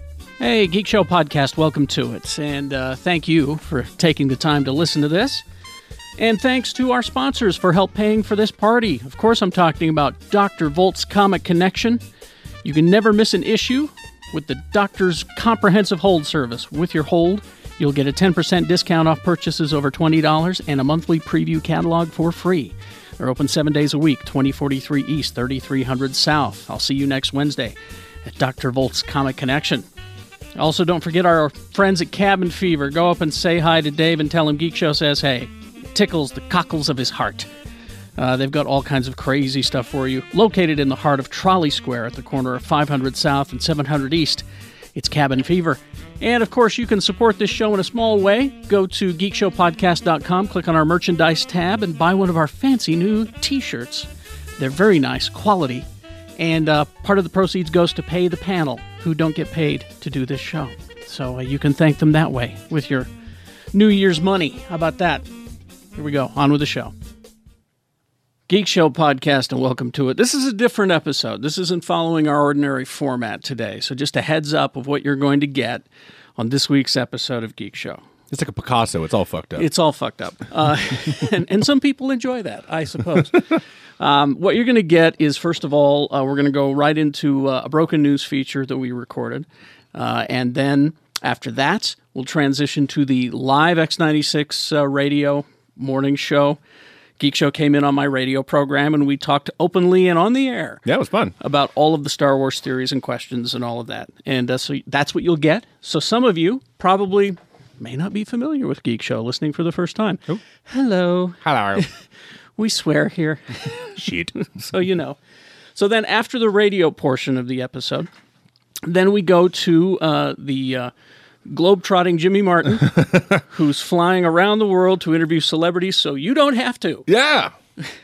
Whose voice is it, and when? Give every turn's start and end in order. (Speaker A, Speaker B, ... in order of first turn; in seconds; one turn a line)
Speaker A: 0.4-5.4
Speaker A: 6.2-12.0
Speaker A: 12.6-29.9
Speaker A: 30.6-37.5
Speaker A: 38.2-44.4
Speaker A: 45.0-55.9
Speaker A: 56.4-63.1
Speaker A: 63.7-65.2
Speaker A: 66.0-66.9
Speaker A: 68.5-75.8
Speaker A: 76.4-78.0
Speaker B: 78.3-79.7
Speaker A: 79.6-96.6
Speaker A: 97.2-100.8
Speaker B: 100.8-101.3
Speaker A: 101.4-111.9
Speaker B: 111.4-111.8
Speaker A: 112.6-114.0
Speaker B: 114.0-114.3
Speaker A: 114.6-115.2
Speaker A: 115.8-118.1
Speaker A: 118.8-120.9
Speaker A: 121.5-127.1
Speaker B: 122.9-123.4
Speaker B: 127.1-127.5